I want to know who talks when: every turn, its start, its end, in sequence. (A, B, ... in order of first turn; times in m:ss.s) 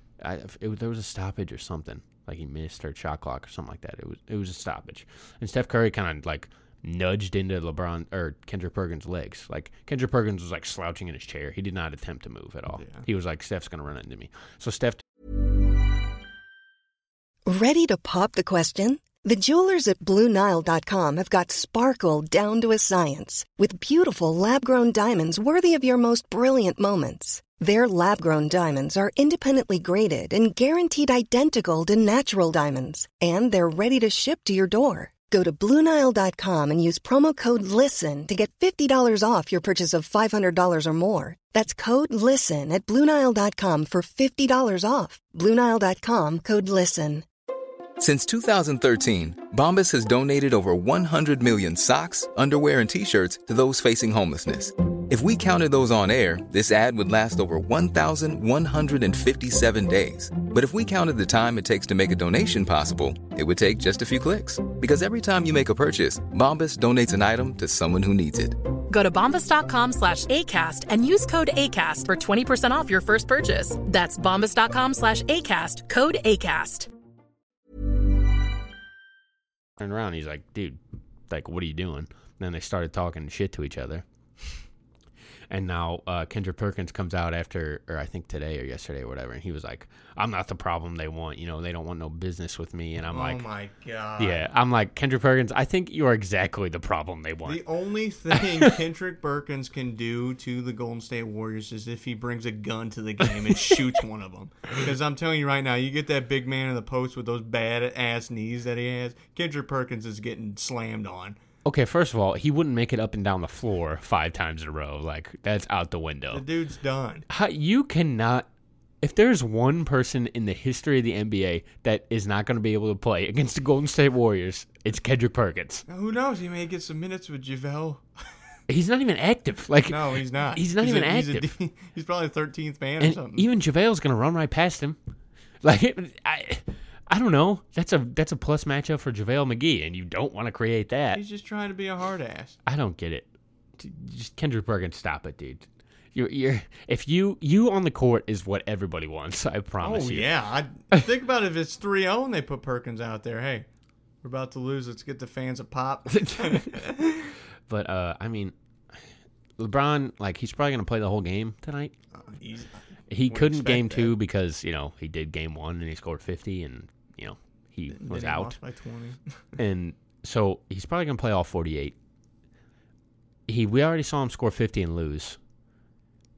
0:00.2-0:15.0 A
0:12.8-0:13.0 B
0:17.5-0:47.2 C
0:48.0-1:08.6 D
1:08.9-1:16.9 E
1:19.8-1:24.0 A
1:25.5-1:33.4 A
1:33.1-1:34.4 B
1:34.2-1:37.6 A
1:37.5-1:51.4 B
1:38.3-1:38.8 A
1:51.6-1:56.4 A
1:56.3-1:57.2 B
1:57.3-1:58.5 A
1:59.0-2:05.8 A
2:05.9-2:08.0 B
2:08.7-2:11.5 A
2:09.9-2:13.5 B
2:13.0-2:15.0 A
2:15.6-2:21.2 A
2:21.1-2:22.6 B
2:22.7-2:30.3 A
2:29.8-2:33.7 B
2:34.2-2:37.3 B
2:36.1-2:36.8 A
2:37.7-2:39.0 A
2:39.6-2:41.9 A
2:42.2-2:44.2 B
2:43.1-2:48.6 A
2:47.9-2:49.2 B
2:49.6-2:52.0 A
2:53.5-2:55.4 A